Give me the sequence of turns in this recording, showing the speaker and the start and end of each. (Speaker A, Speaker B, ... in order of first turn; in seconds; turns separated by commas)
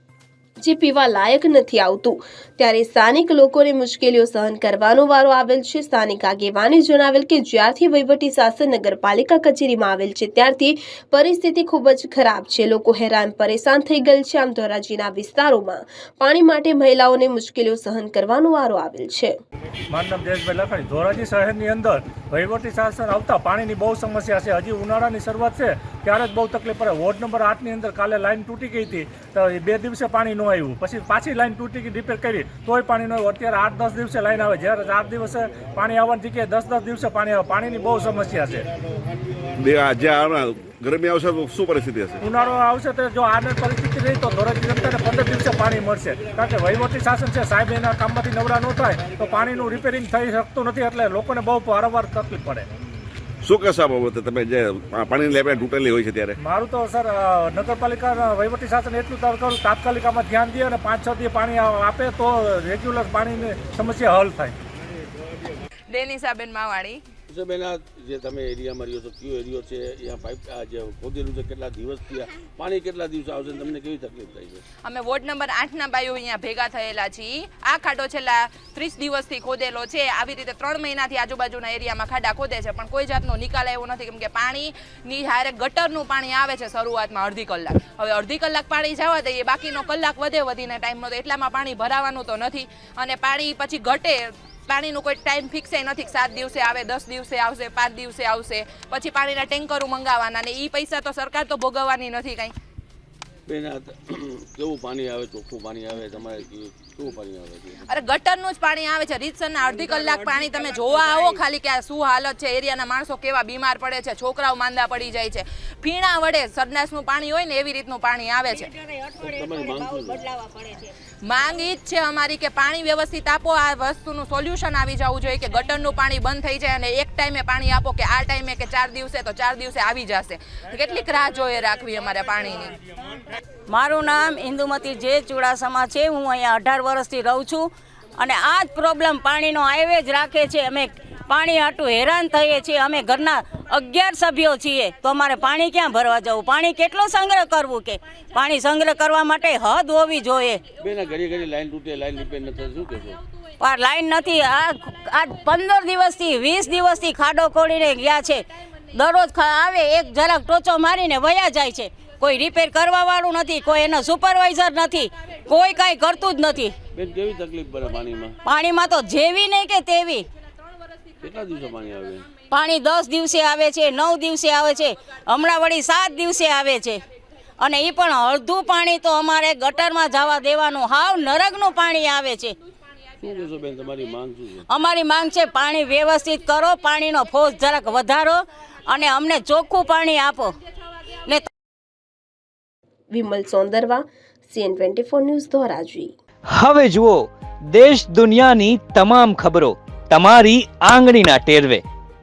Speaker A: 0.6-19.3, Speaker B: 19.9-38.7, Speaker C: 39.6-42.2, Speaker B: 42.2-52.7, Speaker C: 53.4-56.4, Speaker B: 56.4-64.6, Speaker D: 65.9-67.0, Speaker E: 67.3-74.6, Speaker D: 74.8-102.5, Speaker E: 103.5-107.8, Speaker D: 107.9-118.7, Speaker F: 118.5-120.9, Speaker E: 119.2-120.2, Speaker D: 121.2-132.8, Speaker F: 133.7-150.6, Speaker E: 150.8-153.2, Speaker F: 153.6-166.8, Speaker E: 166.9-168.4, Speaker F: 168.4-170.3, Speaker E: 171.2-172.4, Speaker F: 172.4-177.0, Speaker F: 177.6-182.6, Speaker E: 183.2-184.7, Speaker F: 184.7-190.6, Speaker A: 193.1-196.1, Speaker G: 196.5-201.8